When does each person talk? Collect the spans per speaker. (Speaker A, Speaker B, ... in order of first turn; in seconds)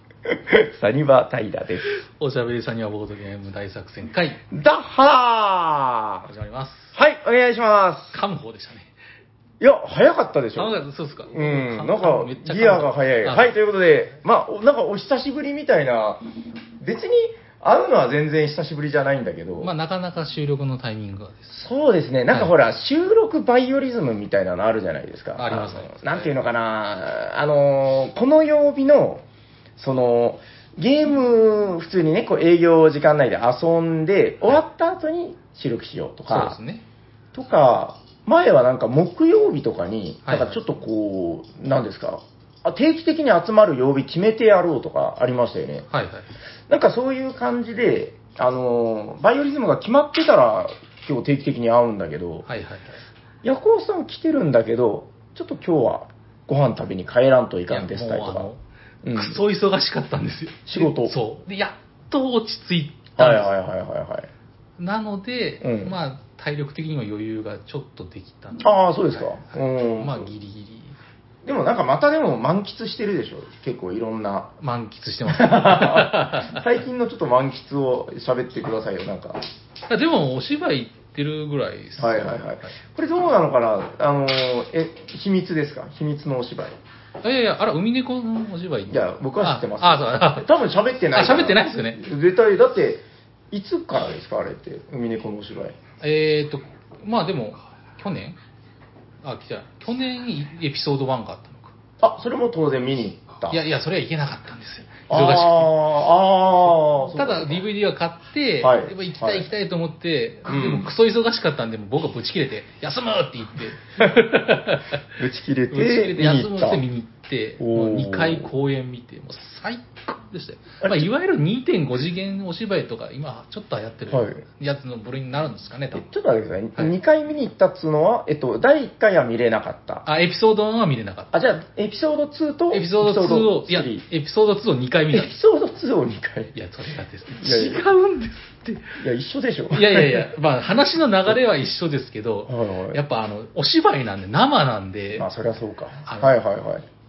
Speaker A: 0.3-1.9, 4.5-6.3, 6.9-8.2, 9.6-16.2, 16.8-19.7, 21.5-29.2, 29.8-36.6, 37.3-45.9, 46.7-52.5, 53.4-58.5, 59.0-59.4, 60.7-61.1, 63.2-64.3, 65.6-66.0, 68.6-70.3, 71.4-74.5, 75.3-79.4, 82.0-86.8, 88.9-95.8, 102.0-103.6, 105.1-107.6, 108.6-109.5, 110.4-110.9, 115.2-116.8, 117.6-118.5, 120.8-121.1, 124.1-124.4, 125.9-130.1, 131.3-134.0, 135.1-136.5, 137.4-137.8, 139.0-140.3, 142.5-143.0, 145.2-146.8
Speaker B: 1.9-4.4, 6.3-6.9, 8.1-8.9, 10.6-13.5, 19.6-21.5, 25.4-26.3, 36.3-36.8, 40.2-40.6, 45.9-46.3, 52.5-53.0, 57.7-58.6, 59.1-63.5, 64.8-71.0, 74.6-76.6, 79.9-82.7, 87.2-90.5, 91.1-92.0, 96.0-98.4, 99.2-101.7, 103.5-105.7, 107.1-115.0, 115.7-126.0, 130.1-131.3, 132.7-135.3, 136.5-139.0, 139.7-145.3, 146.1-146.3